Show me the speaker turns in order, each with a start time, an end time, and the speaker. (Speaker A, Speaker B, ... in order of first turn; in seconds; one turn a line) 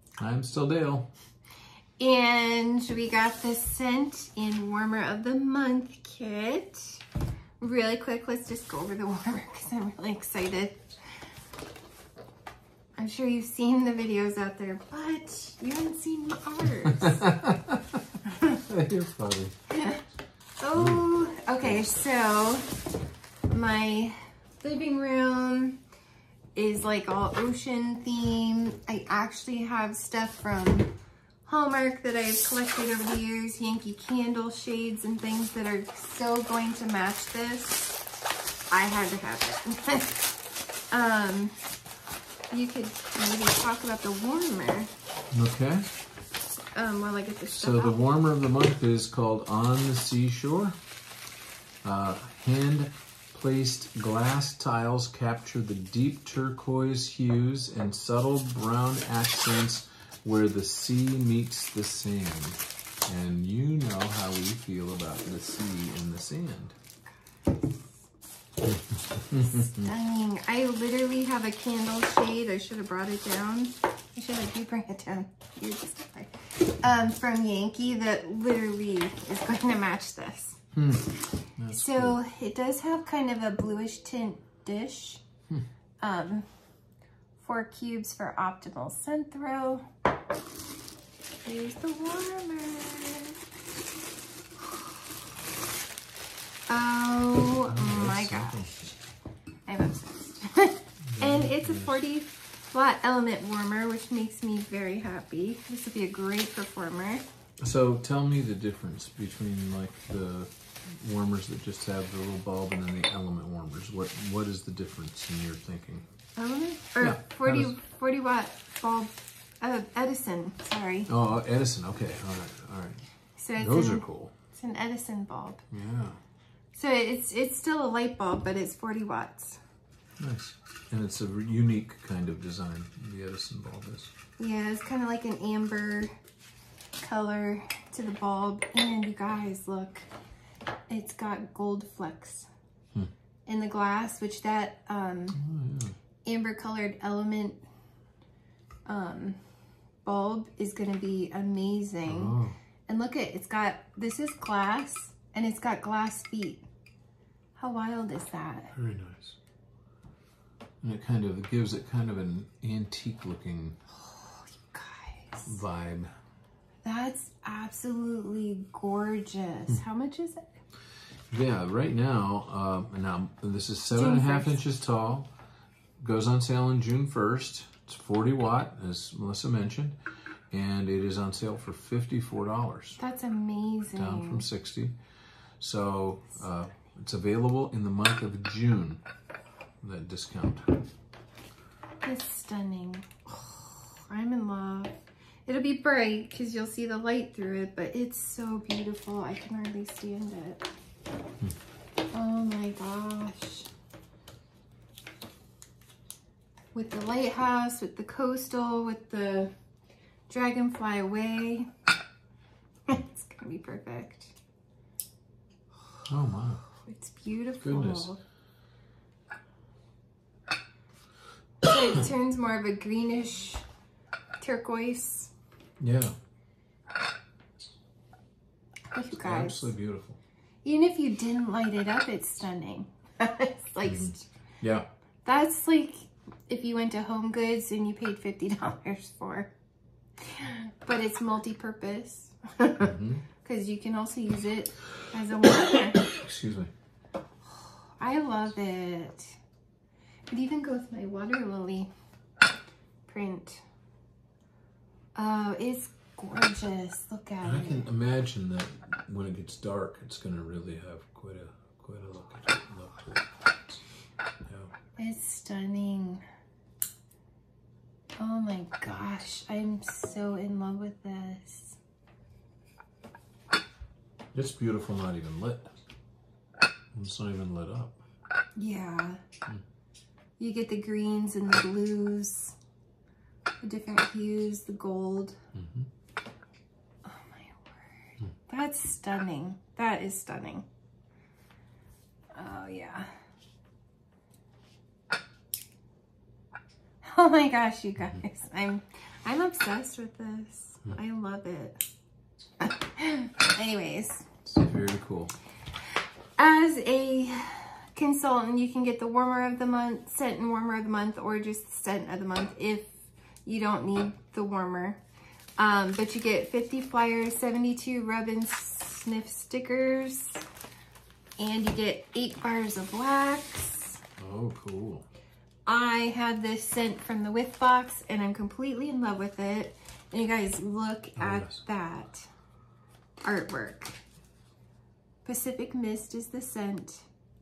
Speaker A: 0.2-1.1
Speaker B: 2.0-7.0
Speaker B: 7.6-10.8
Speaker B: 13.0-17.4
Speaker A: 17.0-18.0
Speaker B: 18.2-18.6
Speaker A: 18.6-19.5
Speaker B: 19.7-20.0
Speaker B: 20.6-22.7
Speaker A: 20.7-21.1
Speaker B: 23.5-25.8
Speaker B: 26.5-30.9
Speaker B: 31.4-38.0
Speaker B: 38.7-40.3
Speaker B: 40.9-41.5
Speaker B: 42.5-44.9
Speaker A: 45.3-45.9
Speaker B: 46.7-48.0
Speaker A: 47.5-50.8
Speaker A: 51.8-66.7
Speaker A: 68.6-69.9
Speaker B: 69.4-80.6
Speaker A: 80.7-82.2
Speaker B: 81.7-85.2
Speaker B: 86.0-86.5
Speaker B: 87.4-89.8
Speaker B: 91.4-93.4
Speaker B: 96.7-99.0
Speaker A: 97.7-98.7
Speaker B: 99.7-107.2
Speaker A: 101.1-102.0
Speaker A: 107.6-116.0
Speaker B: 116.3-121.1
Speaker A: 117.0-117.7
Speaker A: 121.1-123.0
Speaker B: 123.4-125.6
Speaker A: 123.6-124.3
Speaker A: 125.7-126.2
Speaker B: 126.7-129.6
Speaker A: 130.2-134.1
Speaker B: 134.4-136.1
Speaker B: 137.0-140.1
Speaker B: 140.9-142.5
Speaker B: 143.4-145.4
Speaker A: 145.3-145.9
Speaker B: 146.2-147.6
Speaker B: 148.8-149.4
Speaker B: 150.0-152.3
Speaker A: 152.1-152.6
Speaker B: 152.9-156.6
Speaker B: 157.6-158.7
Speaker A: 158.7-159.4
Speaker A: 160.8-163.8
Speaker B: 163.9-165.5
Speaker A: 165.4-166.1
Speaker B: 166.8-170.5
Speaker A: 171.3-175.3
Speaker B: 173.9-174.6
Speaker A: 176.0-179.9
Speaker A: 180.5-183.0
Speaker B: 183.0-184.4
Speaker A: 183.9-184.9
Speaker A: 185.6-189.0
Speaker A: 189.8-190.7
Speaker B: 192.0-200.6
Speaker B: 202.1-203.7
Speaker B: 206.7-209.5
Speaker B: 210.3-211.7
Speaker B: 212.9-214.3
Speaker A: 216.1-216.6
Speaker B: 216.8-218.2
Speaker A: 217.6-218.1
Speaker B: 221.6-223.6
Speaker B: 224.4-225.3
Speaker A: 225.8-226.1
Speaker B: 228.9-229.7
Speaker A: 229.2-230.2
Speaker B: 230.6-234.2
Speaker A: 233.8-234.1
Speaker A: 234.6-234.9
Speaker B: 235.2-239.5
Speaker B: 240.2-246.1
Speaker A: 242.8-243.2
Speaker A: 246.0-246.7
Speaker B: 247.5-249.4
Speaker B: 250.3-251.9
Speaker B: 253.1-253.6
Speaker B: 255.1-257.9
Speaker A: 257.4-263.8
Speaker A: 264.4-264.7
Speaker B: 265.0-266.2
Speaker B: 268.2-271.8
Speaker A: 274.3-275.7
Speaker A: 276.9-278.0
Speaker B: 278.6-279.2
Speaker B: 280.4-282.5
Speaker B: 283.6-285.4
Speaker A: 285.5-285.9
Speaker B: 287.0-290.6
Speaker B: 292.3-293.1
Speaker B: 297.0-301.9
Speaker B: 302.6-304.2
Speaker A: 304.4-305.3
Speaker B: 306.4-315.0
Speaker B: 315.6-320.4
Speaker B: 321.4-324.0
Speaker A: 324.2-325.1
Speaker B: 325.6-332.3
Speaker A: 331.2-331.6
Speaker B: 333.2-334.0
Speaker B: 335.2-337.1